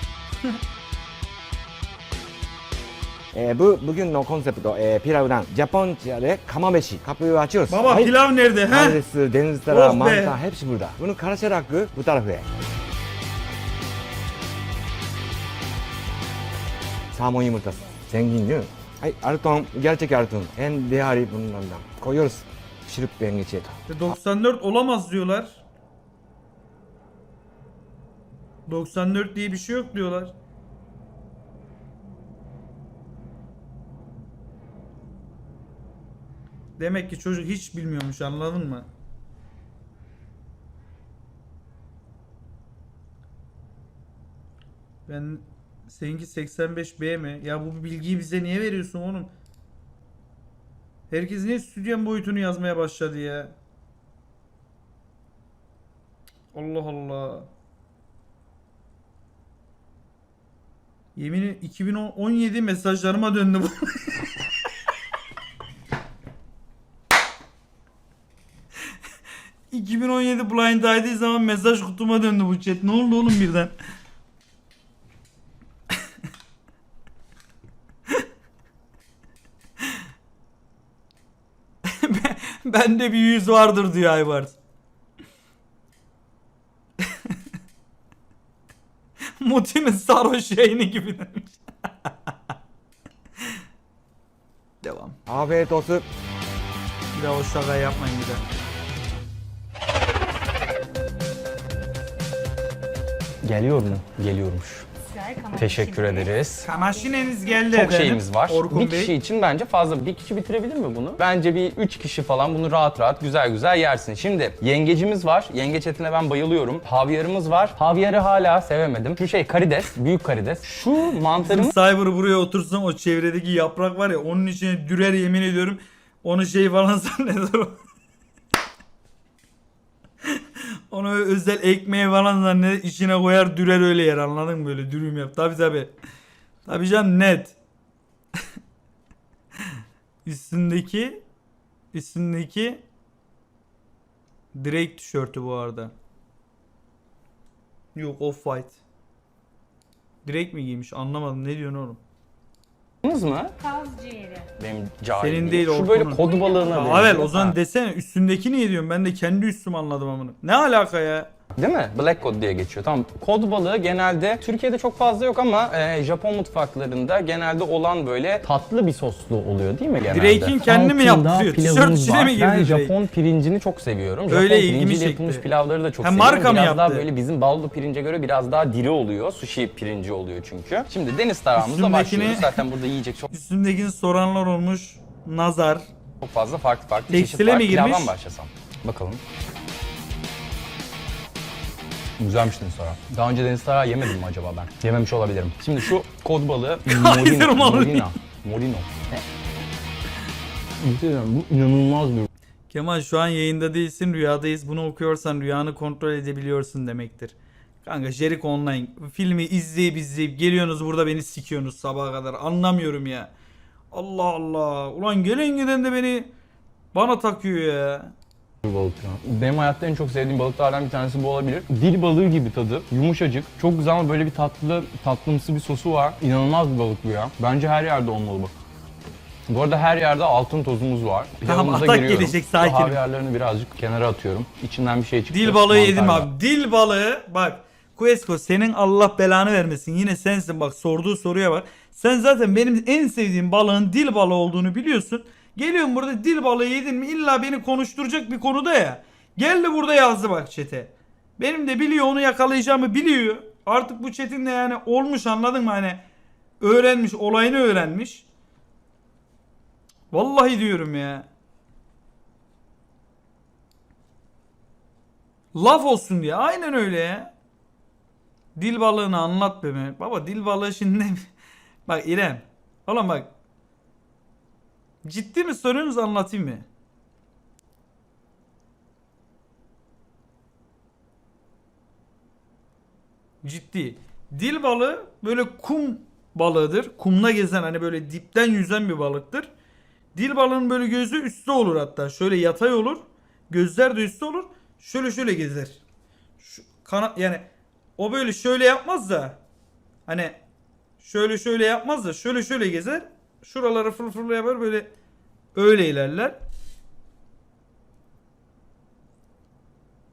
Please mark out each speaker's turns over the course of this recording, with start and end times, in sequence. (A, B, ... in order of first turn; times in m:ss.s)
0:03.3-0:08.2 A
0:07.7-0:09.0 B
0:08.7-0:12.4 A
0:09.7-0:10.4 B
0:17.1-0:24.1 A
0:23.9-0:25.6 B
0:28.7-0:30.3 B
0:36.8-0:38.9 B
0:45.1-0:49.3 B
0:51.1-0:53.6 B
0:56.5-0:57.5 B
1:01.2-1:04.2 B
1:09.7-1:13.7 B
1:21.8-1:24.6 B
1:29.4-1:31.6 B
1:34.8-1:35.2 B
1:35.2-1:36.0 A
1:37.1-1:38.4 B
1:43.4-1:44.9 C
1:45.0-1:47.7 D
1:45.5-1:46.7 C
1:46.6-1:49.1 B
1:47.7-2:01.7 C
2:01.4-2:07.8 B
2:10.9-2:15.9 B
2:16.6-2:17.6 B
2:20.2-2:21.2 B
2:21.9-2:22.8 B
2:24.5-2:25.9 B
2:27.9-2:28.8 B
2:30.2-2:32.0 B
2:33.0-2:33.5 C
2:33.6-2:34.5 D
2:34.6-2:37.6 C
2:35.2-2:41.3 B
2:36.3-2:36.8 D
2:41.6-3:03.3 C
2:50.1-2:52.9 B
2:54.3-2:55.4 B
2:56.0-2:57.1 B
3:01.5-3:02.6 B
3:03.3-3:05.8 B
3:06.2-3:09.2 C
3:07.1-3:08.1 B
3:12.2-3:19.2 C
3:16.8-3:18.1 B
3:20.8-3:22.3 C
3:22.7-3:33.3 B
3:33.9-3:36.3 B
3:36.9-3:38.1 B
3:38.6-3:48.5 C
3:49.5-3:56.3 C
3:51.4-3:53.0 B
3:55.3-4:16.0 B
4:16.6-4:18.2 B
4:20.1-4:21.3 B
4:25.5-4:27.3 B
4:28.6-4:31.3 B
4:31.8-4:33.3 B
4:35.0-4:36.6 B
4:43.4-4:49.5 B
4:50.1-4:55.8 B
4:56.4-4:59.4 B
5:00.1-5:00.4 B
5:01.0-5:04.9 B
5:05.5-5:06.4 B